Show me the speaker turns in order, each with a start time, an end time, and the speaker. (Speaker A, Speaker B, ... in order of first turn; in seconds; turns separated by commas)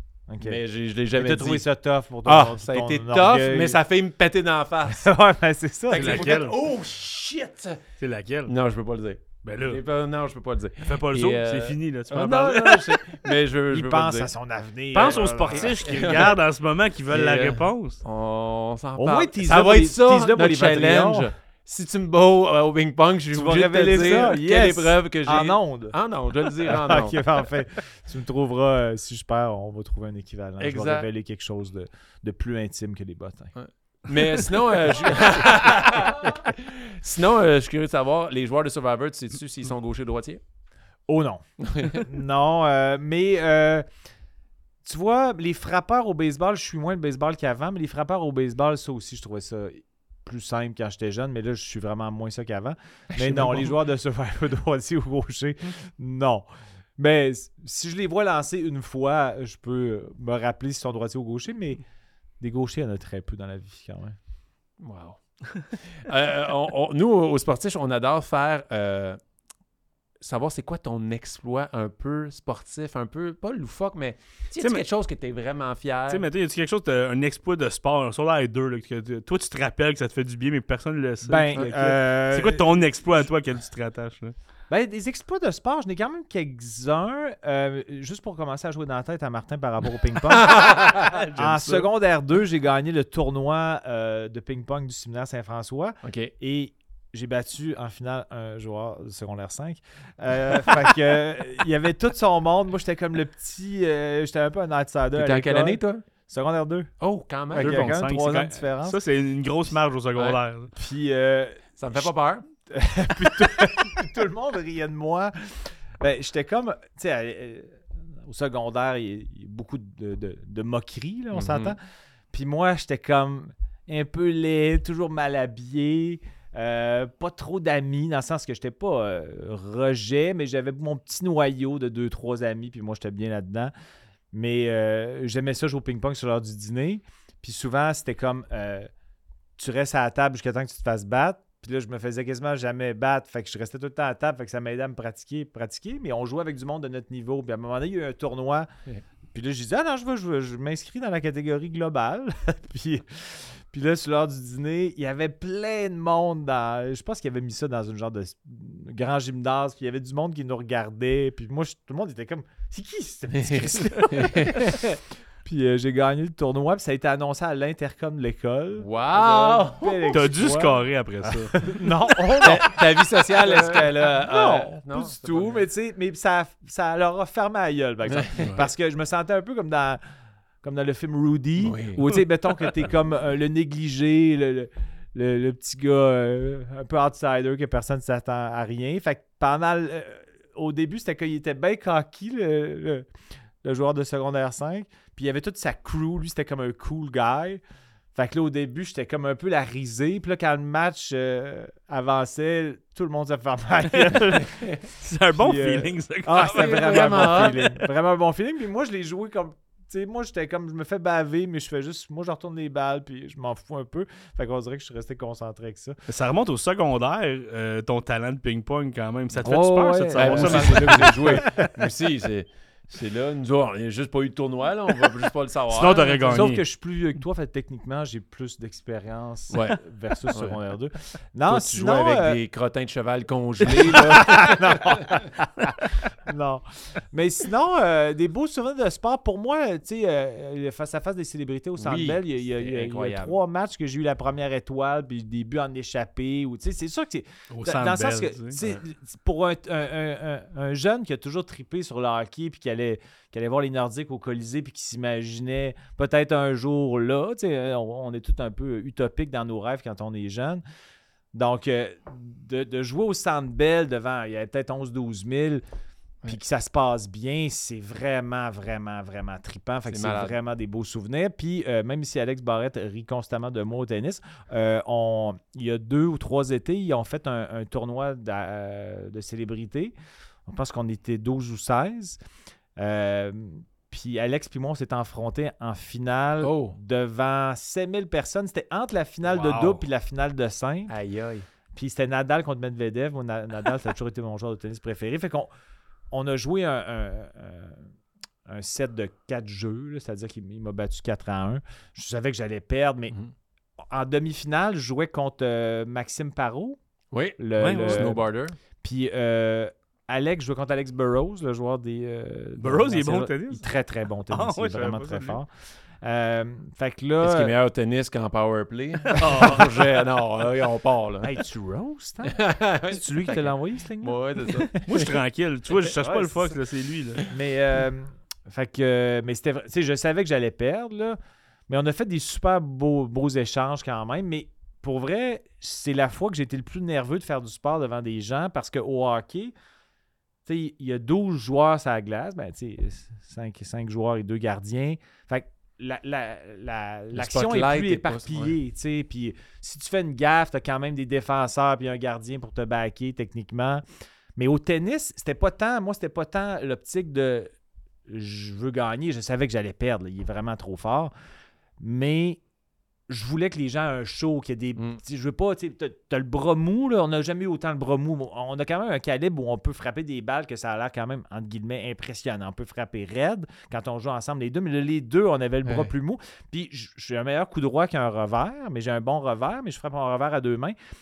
Speaker A: 0.3-0.6, Speaker B: 0.4-1.7, Speaker A: 1.1-3.8, Speaker B: 2.2-5.1, Speaker A: 4.9-6.4, Speaker B: 5.9-7.8, Speaker C: 5.9-6.5, Speaker C: 8.0-8.5, Speaker B: 8.5-14.3, Speaker C: 9.4-9.8, Speaker C: 10.8-13.2, Speaker A: 13.7-16.2, Speaker C: 14.9-18.0, Speaker B: 14.9-16.4, Speaker B: 17.1-27.2, Speaker A: 19.0-21.3, Speaker A: 23.3-26.0, Speaker A: 26.5-33.5, Speaker B: 30.6-31.1, Speaker B: 33.5-40.4, Speaker A: 35.4-36.3, Speaker A: 41.1-43.9, Speaker B: 41.6-42.0, Speaker A: 44.9-61.8, Speaker B: 53.1-53.7, Speaker A: 62.4-64.2, Speaker B: 64.8-65.2, Speaker B: 65.7-69.2, Speaker B: 70.2-76.3, Speaker C: 74.6-74.8, Speaker C: 76.1-84.3, Speaker A: 81.2-82.8, Speaker A: 84.7-106.9, Speaker B: 90.3-91.2, Speaker C: 91.0-91.9, Speaker B: 96.0-96.3, Speaker B: 105.2-106.0, Speaker B: 107.0-107.9, Speaker A: 107.5-109.0, Speaker C: 107.6-110.7, Speaker A: 110.8-112.1, Speaker B: 111.8-112.5, Speaker A: 112.7-121.8, Speaker B: 121.3-121.8, Speaker A: 122.3-133.7, Speaker A: 134.3-138.9, Speaker A: 139.6-148.7, Speaker A: 149.3-180.0, Speaker B: 163.3-165.0, Speaker B: 168.8-170.2, Speaker C: 170.1-171.7, Speaker B: 172.4-175.7, Speaker B: 178.1-178.6, Speaker A: 180.6-193.1, Speaker B: 181.6-182.2, Speaker A: 193.6-197.6, Speaker A: 198.2-204.7, Speaker C: 203.9-207.7, Speaker A: 205.3-216.0, Speaker B: 206.3-207.7, Speaker C: 216.1-221.6, Speaker A: 219.4-221.7, Speaker B: 220.2-226.2, Speaker C: 225.7-226.6, Speaker A: 225.8-232.4, Speaker B: 229.5-229.8, Speaker B: 230.3-230.6, Speaker B: 231.5-235.2, Speaker A: 233.8-260.6, Speaker B: 241.8-243.4, Speaker C: 247.5-248.6, Speaker A: 261.3-265.6, Speaker A: 266.3-279.9, Speaker B: 269.9-270.4, Speaker A: 280.5-282.2, Speaker A: 282.8-290.9, Speaker B: 286.4-286.8, Speaker C: 289.3-289.8, Speaker B: 290.9-291.5, Speaker A: 291.7-295.5, Speaker A: 296.1-297.9, Speaker A: 298.5-303.1, Speaker A: 303.8-306.8, Speaker B: 307.1-308.6, Speaker A: 307.4-308.2, Speaker C: 307.6-308.1, Speaker A: 308.8-315.5, Speaker C: 312.6-313.6, Speaker C: 314.3-315.4, Speaker A: 316.0-317.5, Speaker B: 317.2-321.4, Speaker C: 319.1-319.8, Speaker A: 321.2-325.0, Speaker B: 322.2-324.8, Speaker C: 324.8-327.2, Speaker A: 325.9-326.6, Speaker A: 327.3-339.6, Speaker A: 340.5-353.8, Speaker B: 347.1-348.6, Speaker A: 354.4-357.5, Speaker A: 358.1-361.1, Speaker A: 361.8-362.4, Speaker A: 363.1-380.8, Speaker B: 375.6-375.9